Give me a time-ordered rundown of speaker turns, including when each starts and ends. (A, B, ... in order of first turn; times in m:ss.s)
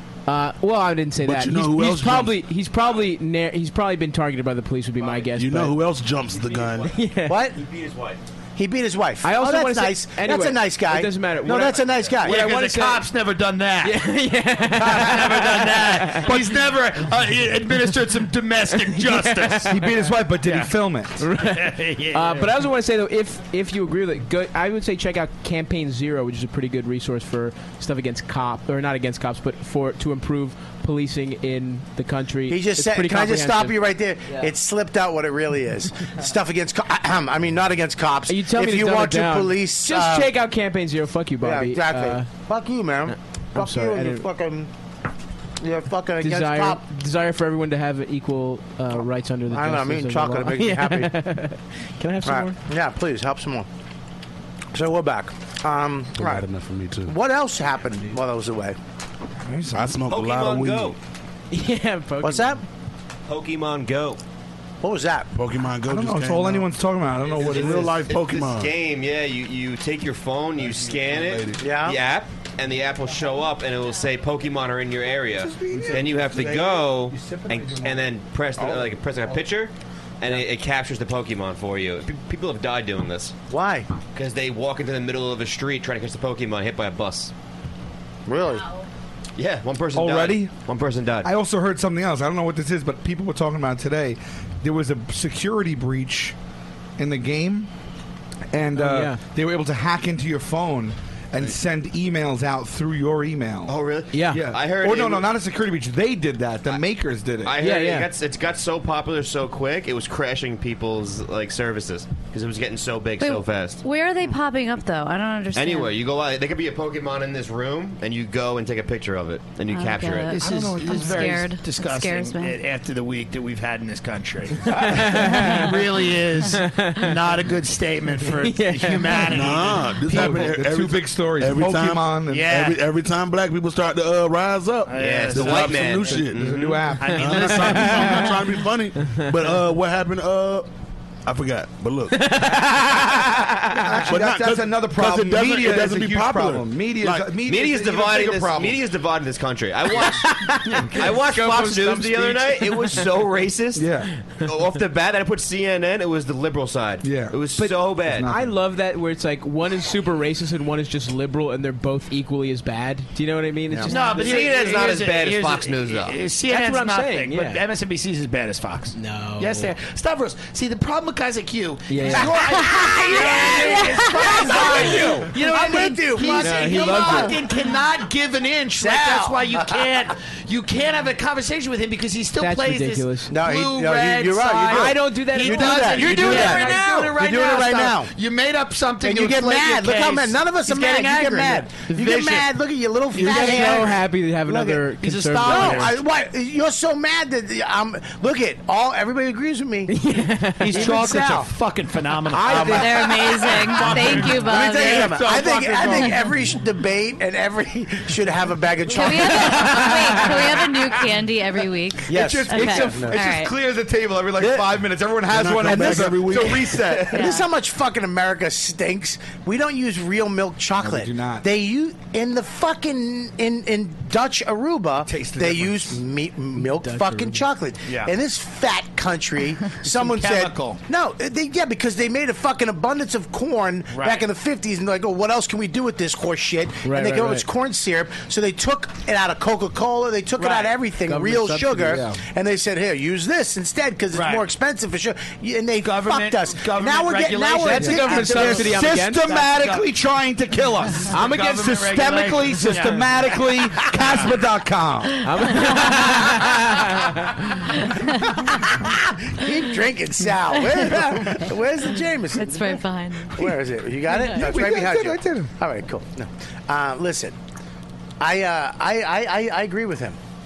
0:00.3-0:05.9 A
0:01.2-0:02.4 B
0:05.2-0:06.9 B
0:06.4-0:06.9 C
0:06.8-0:07.5 A
0:07.3-0:07.6 D
0:07.5-0:08.2 C
0:08.6-0:12.4 D
0:09.2-0:13.1 A
0:12.2-0:14.0 E
0:13.8-0:16.6 A
0:14.7-0:19.7 E
0:18.8-0:20.0 A
0:19.7-0:21.2 F
0:20.4-0:20.7 E
0:21.2-0:33.8 A
0:21.4-0:22.5 E
0:32.5-0:40.3 D
0:38.3-0:42.3 A
0:41.4-0:44.7 D
0:43.1-0:44.2 A
0:45.6-0:46.8 D
0:46.2-0:52.6 A
0:49.5-0:51.1 D
0:52.2-0:53.7 D
0:54.7-0:56.5 D
0:56.2-0:57.1 B
0:57.0-0:58.8 D
0:59.5-1:00.0 F
0:59.8-1:01.0 B
1:00.1-1:01.0 C
1:01.5-1:02.6 A
1:02.2-1:02.6 D
1:03.3-1:04.2 C
1:04.8-1:05.3 D
1:05.4-1:06.7 B
1:05.9-1:08.0 F
1:07.3-1:08.8 B
1:07.3-1:23.4 C
1:10.6-1:11.6 B
1:11.6-1:12.0 D
1:15.4-1:17.3 B
1:15.7-1:16.0 F
1:17.2-1:18.0 F
1:23.5-1:23.9 D
1:24.1-1:27.3 C
1:28.3-1:28.7 D
1:29.4-1:31.3 C
1:30.0-1:30.6 F
1:31.2-1:36.3 F
1:37.0-1:37.7 F
1:38.5-1:47.6 F
1:38.8-1:39.2 A
1:43.7-1:45.3 C
1:44.1-1:44.5 A
1:47.4-1:53.8 C
1:47.6-1:48.1 A
1:53.2-1:56.0 G
1:55.5-2:00.4 C
1:59.7-2:02.6 G
2:00.3-2:09.9 E
2:00.4-2:00.7 B
2:04.7-2:07.4 A
2:08.2-2:09.5 A
2:09.3-2:16.6 B
2:10.0-2:12.5 F
2:12.3-2:12.8 E
2:14.9-2:16.2 E
2:15.0-2:17.0 C
2:16.4-2:17.6 F
2:17.0-2:18.3 E
2:17.2-2:20.7 B
2:17.7-2:18.4 A
2:19.0-2:19.3 A
2:21.3-2:22.6 B
2:22.1-2:24.1 A
2:23.7-2:28.9 F
2:24.1-2:27.3 B
2:27.4-2:38.3 C
2:30.0-2:33.1 A
2:33.8-2:34.1 F
2:37.0-2:37.4 F
2:37.6-2:44.8 A
2:38.0-2:38.6 F
2:43.9-3:12.5 E
2:44.1-2:46.2 C
2:46.5-2:47.6 A
2:48.9-2:49.7 A
2:51.9-2:57.6 A
2:52.1-2:57.4 D
2:58.7-3:00.1 D
3:02.4-3:03.4 A
3:03.3-3:08.1 D
3:04.6-3:07.1 A
3:09.0-3:14.8 D
3:13.1-3:16.0 A
3:13.2-3:13.9 E
3:15.0-3:15.9 E
3:15.4-3:20.0 D
3:19.9-3:21.2 A
3:20.6-3:26.2 E
3:20.7-3:21.5 D
3:22.3-3:24.4 A
3:22.5-3:23.1 D
3:22.7-3:25.3 G
3:23.8-3:30.6 D
3:25.9-3:26.2 G
3:28.9-3:33.5 G
3:32.1-3:33.2 D
3:32.1-3:37.3 F
3:35.3-3:36.8 B
3:35.6-4:08.7 D
3:37.1-3:37.5 G
3:40.8-3:41.4 F
3:45.1-3:46.0 F
3:46.6-3:47.5 A
3:47.9-3:48.1 E
3:49.8-3:50.8 E
3:53.9-3:54.3 E
3:56.8-3:57.4 A
4:00.4-4:02.2 A
4:04.1-4:04.4 E
4:05.8-4:09.9 E
4:07.6-4:09.3 A
4:08.4-4:15.2 F
4:11.1-4:11.9 A
4:11.2-4:14.3 E
4:15.2-4:17.5 A
4:17.7-4:18.7 G
4:18.8-4:27.4 D
4:22.4-4:23.5 G
4:24.1-4:24.4 G
4:24.3-4:25.5 F
4:28.2-4:30.2 D